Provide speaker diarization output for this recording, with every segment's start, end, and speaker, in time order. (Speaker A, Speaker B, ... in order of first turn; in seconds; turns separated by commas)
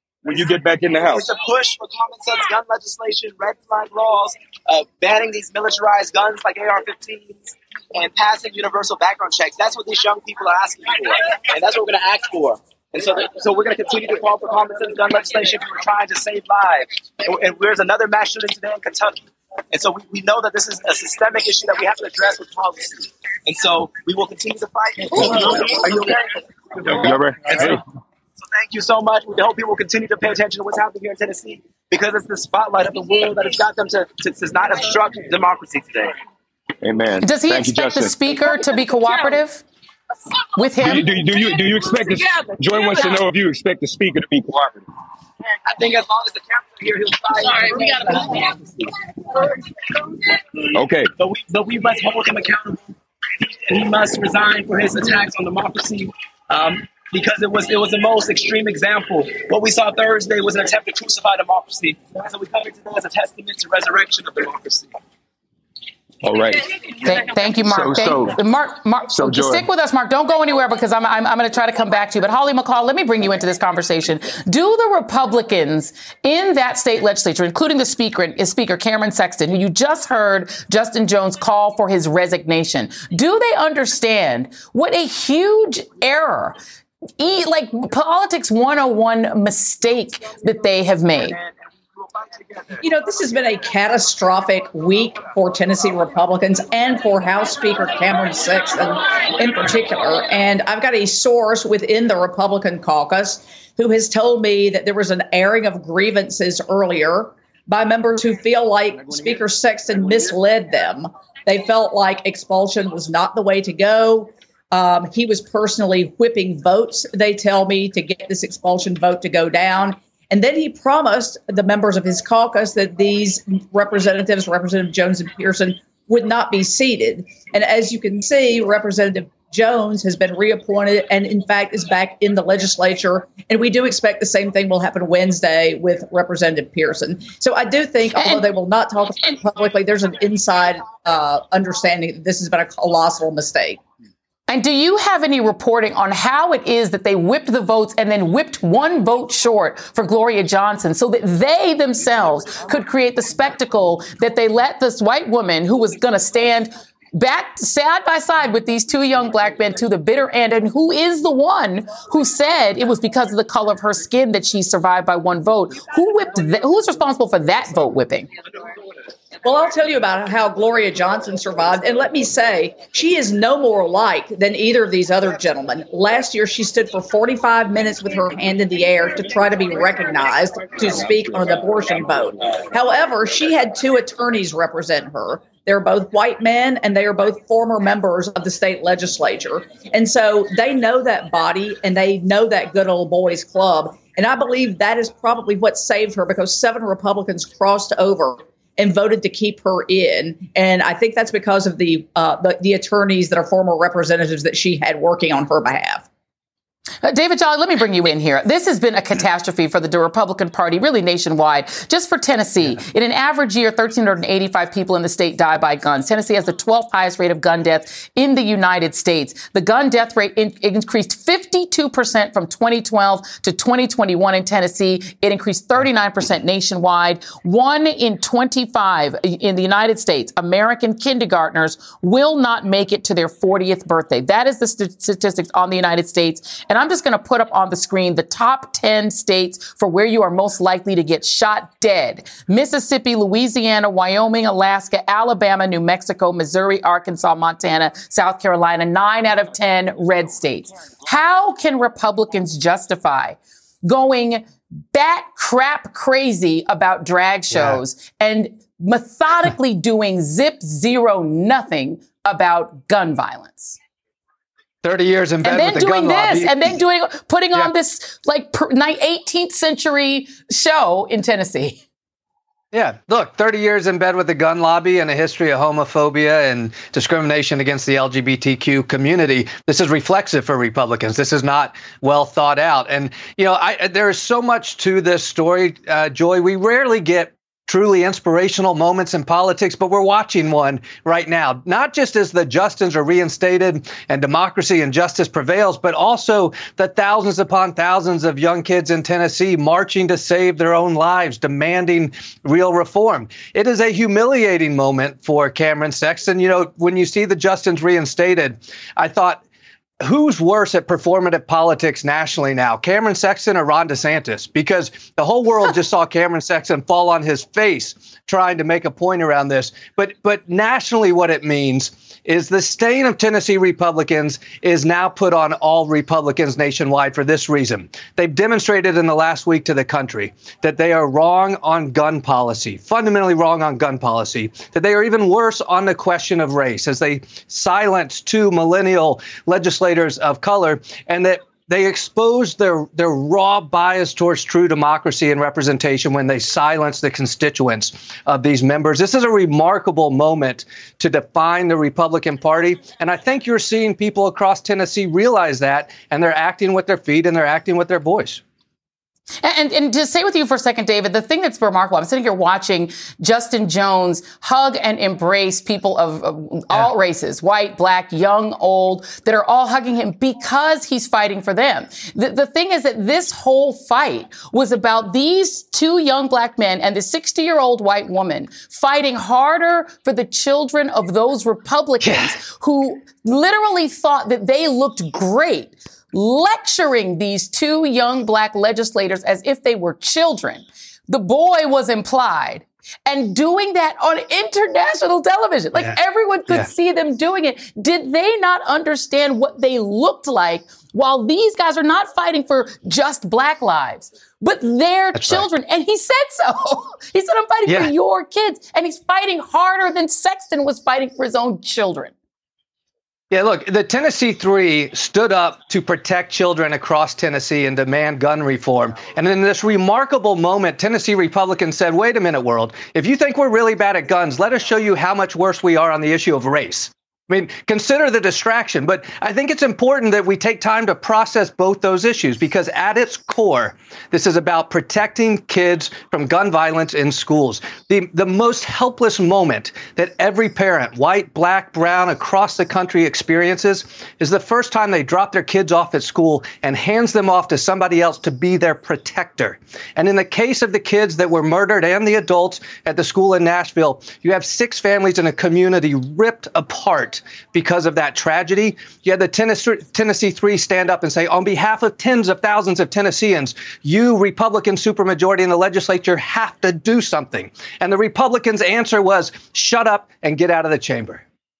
Speaker A: 0.2-1.2, Speaker B: 1.0-27.8, Speaker A: 26.9-27.8, Speaker B: 28.4-36.2, Speaker A: 36.8-38.2, Speaker C: 37.2-39.6, Speaker C: 40.6-41.1, Speaker A: 40.8-44.9, Speaker B: 45.6-48.9, Speaker A: 50.7-51.1, Speaker B: 51.2-64.9, Speaker A: 66.2-66.7, Speaker C: 67.0-86.6, Speaker A: 67.6-68.4, Speaker A: 69.1-69.7, Speaker C: 87.2-91.4, Speaker D: 92.8-143.8, Speaker C: 144.5-168.3, Speaker D: 169.4-206.0, Speaker C: 207.0-263.8, Speaker E: 257.5-257.8, Speaker E: 264.8-266.8, Speaker C: 265.4-271.8, Speaker E: 272.7-309.4, Speaker E: 310.0-358.4, Speaker C: 359.4-412.1, Speaker E: 382.0-382.3, Speaker E: 405.1-405.4, Speaker E: 413.3-471.2